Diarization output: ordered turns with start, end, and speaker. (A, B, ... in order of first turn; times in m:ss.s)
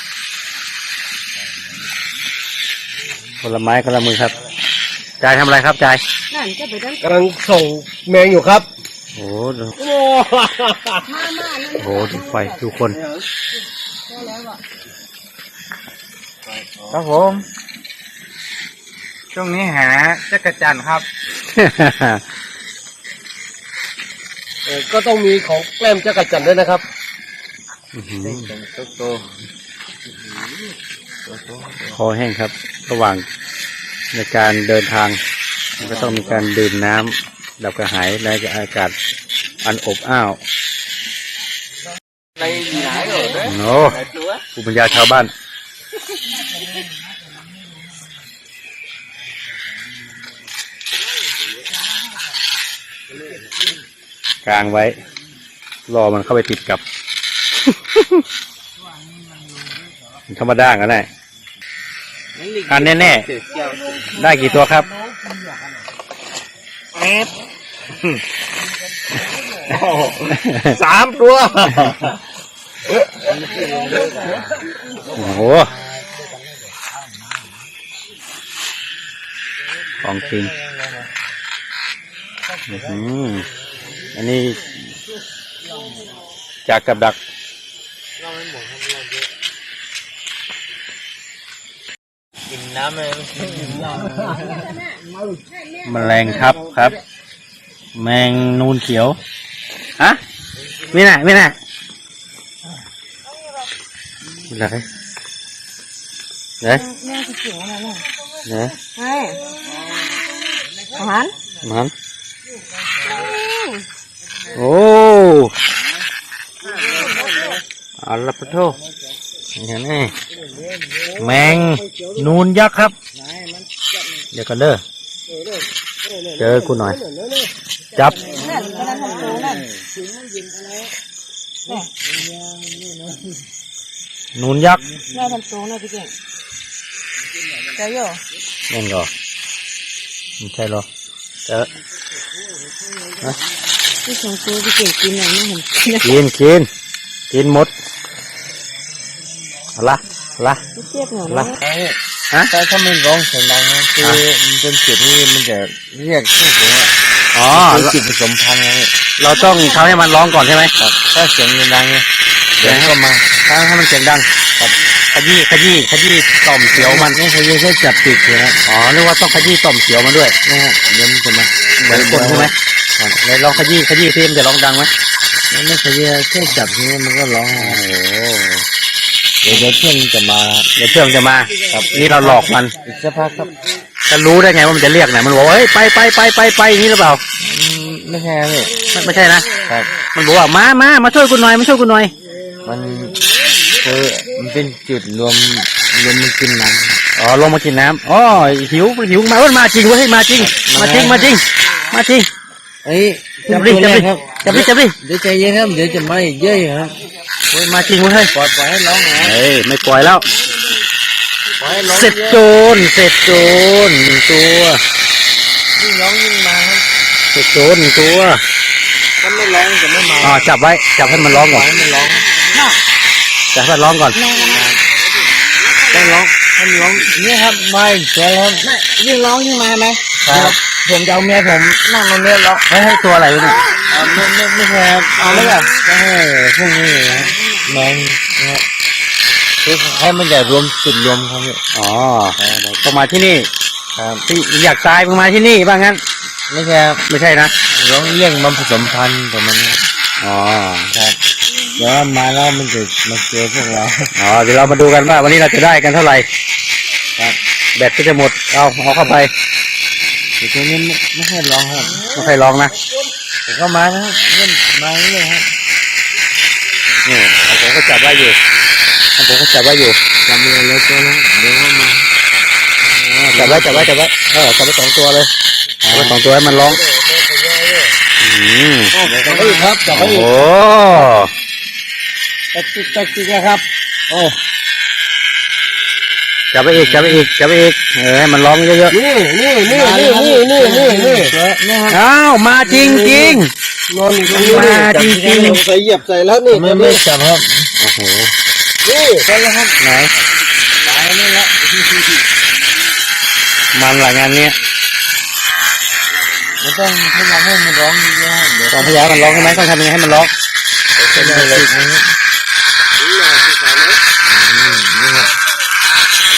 0:03.4-0:04.4 A
0:05.2-0:06.0 A
0:06.3-0:07.0 B
0:07.0-0:08.7 C
0:09.1-0:09.7 A
0:09.8-0:11.1 C
0:11.1-0:12.4 B
0:11.7-0:13.0 A
0:14.2-0:14.5 B
0:16.8-0:17.4 D
0:19.3-0:21.0 D
0:21.5-0:22.2 A
0:24.6-0:26.8 C
0:27.9-0:28.5 A
0:28.2-0:29.3 D
0:31.2-0:32.0 D
0:31.9-0:33.2 A
0:34.1-0:35.2 A
0:35.8-0:36.5 D
0:35.8-0:38.9 A
0:39.6-0:40.4 A
0:42.4-0:43.5 D
0:43.3-0:44.0 A
0:44.6-0:45.3 A
0:54.4-0:55.0 A
0:55.9-0:56.8 A
1:00.3-1:01.1 A
1:02.4-1:04.0 D
1:02.7-1:03.2 A
1:04.0-1:04.9 A
1:07.0-1:07.3 D
1:09.7-1:12.1 D
1:10.2-1:10.8 A
1:12.9-1:15.2 D
1:15.1-1:15.7 A
1:20.0-1:20.5 A
1:20.1-1:21.1 D
1:22.7-1:23.5 A
1:24.1-1:24.8 A
1:26.6-1:27.2 A
1:28.2-1:29.1 D
1:32.5-1:34.8 D
1:35.8-1:37.0 A
1:37.9-1:39.2 A
1:40.9-1:41.6 A
1:44.5-1:44.9 A
1:46.8-1:48.0 B
1:48.4-1:48.7 A
1:49.0-1:49.5 B
1:50.9-1:51.3 B
1:51.6-1:51.9 A
1:53.1-1:53.8 B
1:54.5-1:55.5 A
1:57.0-1:57.3 B
1:58.0-1:58.8 A
1:59.5-2:00.1 A
2:01.2-2:02.9 A
2:04.3-2:04.8 A
2:06.4-2:07.0 A
2:07.2-2:07.4 C
2:07.9-2:08.3 A
2:08.2-2:09.4 D
2:08.3-2:09.7 B
2:14.3-2:14.8 A
2:15.1-2:16.1 B
2:17.7-2:18.2 B
2:18.7-2:19.1 A
2:20.4-2:20.8 A
2:24.0-2:26.0 B
2:26.0-2:26.7 A
2:27.3-2:27.7 A
2:29.7-2:30.6 A
2:30.8-2:31.5 B
2:31.3-2:31.5 A
2:31.4-2:32.0 D
2:32.5-2:36.9 D
2:37.3-2:37.9 A
2:37.5-2:38.9 D
2:39.2-2:40.7 A
2:40.8-2:42.0 D
2:42.6-2:43.3 D
2:42.6-2:44.3 A
2:45.1-2:47.2 A
2:46.7-2:48.6 D
2:48.6-2:50.3 A
2:50.4-2:53.2 D
2:51.8-2:52.5 A
2:53.2-2:54.9 A
2:55.5-2:57.8 D
2:57.5-2:58.6 A
2:59.4-3:00.7 D
3:00.8-3:02.7 A
3:01.7-3:03.7 D
3:04.1-3:07.2 A
3:07.4-3:08.8 D
3:08.9-3:09.5 A
3:09.6-3:09.9 D
3:10.1-3:12.1 A
3:12.6-3:13.2 D
3:13.7-3:17.0 D
3:17.2-3:22.3 A
3:20.4-3:21.4 D
3:22.8-3:27.0 D
3:23.5-3:24.9 A
3:27.5-3:28.3 A
3:28.1-3:29.4 D
3:29.1-3:30.3 A
3:31.6-3:32.4 D
3:31.9-3:34.8 A
3:35.7-3:36.8 D
3:37.3-3:38.4 A
3:39.2-3:40.5 D
3:40.2-3:41.6 A
3:41.0-3:42.4 D
3:43.5-3:44.2 A
3:44.3-3:44.6 B
3:44.3-3:44.8 D
3:45.8-3:48.7 D
3:48.8-3:50.0 B
3:50.2-3:58.6 D
3:55.2-3:55.5 B
3:59.6-4:01.6 D
4:01.7-4:03.5 A
4:02.4-4:02.7 D
4:03.9-4:04.2 D
4:04.2-4:06.0 A
4:06.5-4:07.0 D
4:07.0-4:07.6 A
4:07.7-4:09.8 D
4:10.2-4:10.9 A
4:10.9-4:11.2 D
4:11.7-4:14.1 D
4:14.2-4:16.3 A
4:17.8-4:19.3 A
4:20.4-4:22.1 D
4:22.1-4:22.7 A
4:23.5-4:25.5 D
4:27.0-4:28.4 A
4:29.2-4:30.0 A
4:30.2-4:32.1 D
4:32.9-4:33.9 D
4:33.2-4:35.3 A
4:35.8-4:36.2 D
4:35.9-4:36.8 A
4:36.5-4:38.0 C
4:38.2-4:38.9 A
4:38.9-4:40.3 C
4:39.0-4:40.0 D
4:39.9-4:41.3 A
4:42.5-4:43.6 D
4:44.1-4:44.4 C
4:46.5-4:49.0 A
4:46.7-4:47.2 D
4:48.9-4:51.4 C
4:49.7-4:52.0 D
4:51.9-4:53.5 A
4:52.6-4:57.0 C
4:54.3-4:55.6 D
4:54.3-4:55.6 A
4:56.5-4:57.7 D
4:57.8-4:58.3 A
4:58.8-4:59.2 C
4:59.2-4:59.8 D
4:59.8-5:00.1 A
5:00.8-5:01.7 D
5:03.7-5:04.6 A
5:06.6-5:10.3 D
5:08.7-5:10.3 A
5:11.0-5:12.1 D
5:11.1-5:11.7 A
5:13.0-5:14.0 C
5:14.2-5:15.3 D